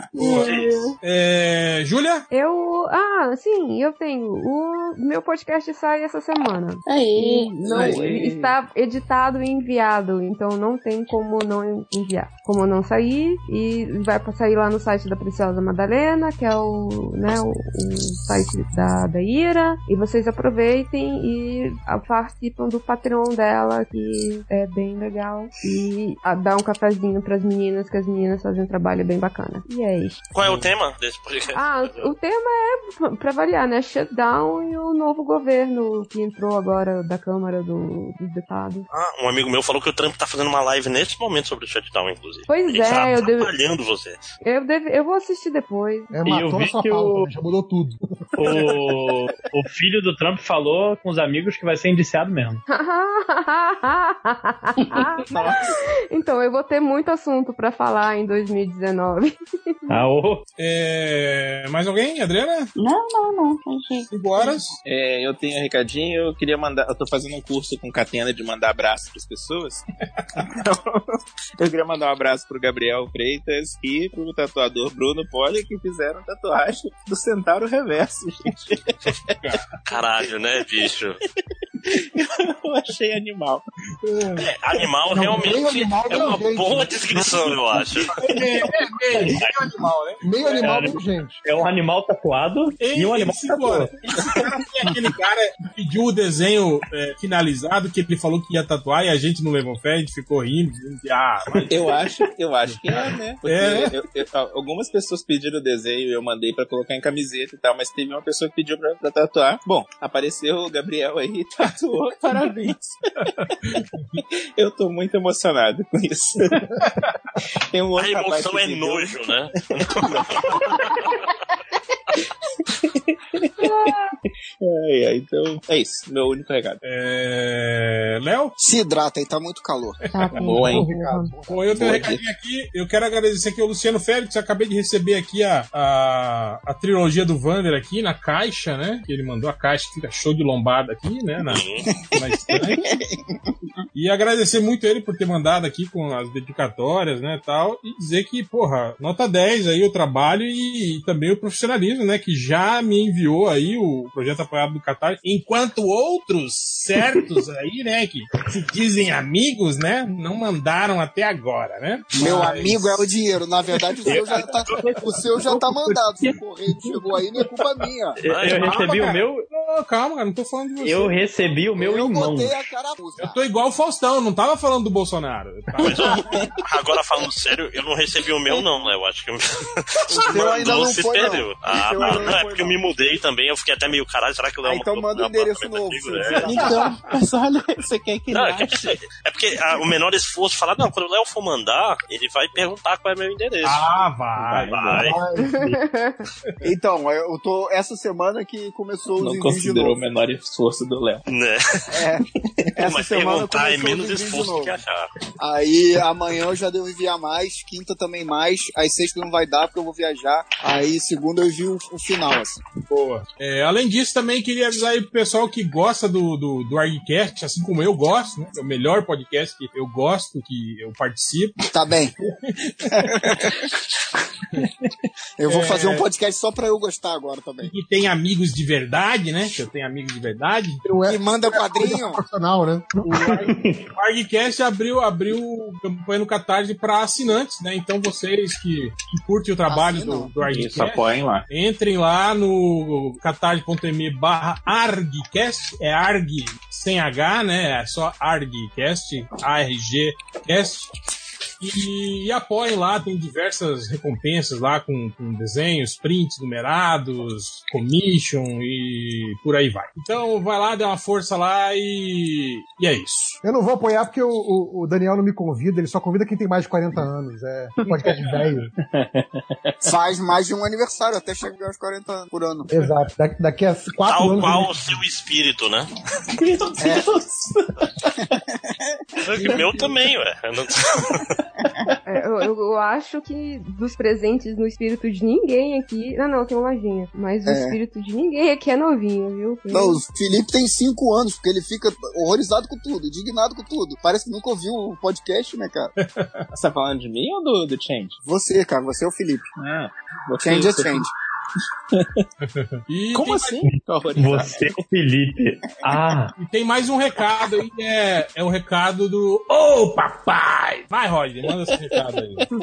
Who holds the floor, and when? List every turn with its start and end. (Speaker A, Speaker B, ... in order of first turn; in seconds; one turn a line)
Speaker A: 0.2-2.2
Speaker B: 0.2-0.9
Speaker C: 0.4-0.7
Speaker D: 2.3-30.5
Speaker B: 6.8-8.0
Speaker E: 7.7-8.5
Speaker F: 7.7-8.1
Speaker C: 30.3-32.1
Speaker D: 31.5-38.9
Speaker C: 38.9-44.2
Speaker D: 42.5-43.5
Speaker D: 44.4-46.1
Speaker G: 46.1-48.6
Speaker H: 46.2-47.3
Speaker H: 48.4-52.6
Speaker D: 52.7-59.8
Speaker B: 54.9-55.2
Speaker E: 55.3-55.7
Speaker H: 59.9-60.4
Speaker A: 60.6-62.7
Speaker B: 62.8-64.5
Speaker A: 64.1-64.8
Speaker E: 64.8-69.8
Speaker E: 70.4-79.6
Speaker C: 79.8-81.2
Speaker E: 81.8-83.6
Speaker A: 84.0-84.4
Speaker C: 84.4-88.2
Speaker G: 85.1-88.8
Speaker A: 88.2-90.7
Speaker H: 89.1-89.5
Speaker G: 90.2-91.4
Speaker H: 90.6-93.9
Speaker A: 92.8-101.9
Speaker E: 101.5-113.3
Speaker A: 102.9-104.0
Speaker E: 114.6-116.6
Speaker E: 117.7-120.6
Speaker C: 118.0-121.1
Speaker E: 122.8-123.9
Speaker E: 124.6-126.8
Speaker A: 126.8-128.6
Speaker F: 128.6-130.0
Speaker A: 130.1-130.8
Speaker D: 130.1-131.3
Speaker E: 130.4-130.9
Speaker G: 130.4-132.0
Speaker A: 131.5-142.8
Speaker E: 131.7-132.3
Speaker C: 141.5-141.9
Speaker A: 143.9-163.1
Speaker H: 162.2-162.5
Speaker F: 162.2-168.2
Speaker H: 164.1-166.9
Speaker H: 168.2-169.4
Speaker C: 168.3-168.7
Speaker A: 168.4-171.2
Speaker H: 170.8-172.6
Speaker F: 171.7-173.4
Speaker A: 173.2-176.3
Speaker C: 175.8-186.6
Speaker E: 176.1-176.5
Speaker E: 178.4-178.9
Speaker F: 180.1-182.8
Speaker F: 184.6-186.9
Speaker E: 186.4-189.0
Speaker C: 188.3-193.8
Speaker A: 193.6-195.1
Speaker E: 194.3-195.2
Speaker C: 194.7-195.2
Speaker G: 195.0-195.5
Speaker D: 195.3-196.2
Speaker F: 196.6-200.0
Speaker E: 199.2-201.2
Speaker C: 201.3-202.0
Speaker F: 201.9-204.8
Speaker C: 202.8-205.1
Speaker F: 205.4-212.6
Speaker A: 212.9-221.7
Speaker F: 221.7-222.1
Speaker A: 222.2-223.3
Speaker F: 222.9-223.6
Speaker F: 225.4-227.7
Speaker A: 225.5-226.0
Speaker A: 227.6-230.8
Speaker G: 230.8-233.3
Speaker F: 231.1-232.2
Speaker A: 233.0-250.9
Speaker H: 233.6-233.8
Speaker F: 239.7-240.3
Speaker E: 240.4-241.5
Speaker A: 251.6-263.4
Speaker G: 263.4-268.7
Speaker E: 268.9-269.2
Speaker F: 269.8-272.7
Speaker G: 272.7-274.7
Speaker C: 274.0-275.9
Speaker E: 276.3-278.1
Speaker F: 276.8-277.0
Speaker C: 279.2-281.2
Speaker E: 279.3-279.9
Speaker D: 282.0-290.0
Speaker F: 287.4-287.8
Speaker F: 289.7-295.9
Speaker A: 296.0-296.4
Speaker E: 296.5-298.2
Speaker F: 298.2-299.4
Speaker E: 299.6-301.1
Speaker F: 300.4-301.1
Speaker E: 301.9-302.2
Speaker A: 302.4-303.6
Speaker E: 303.1-304.7
Speaker H: 303.7-306.3
Speaker A: 306.4-312.5
Speaker E: 311.4-312.0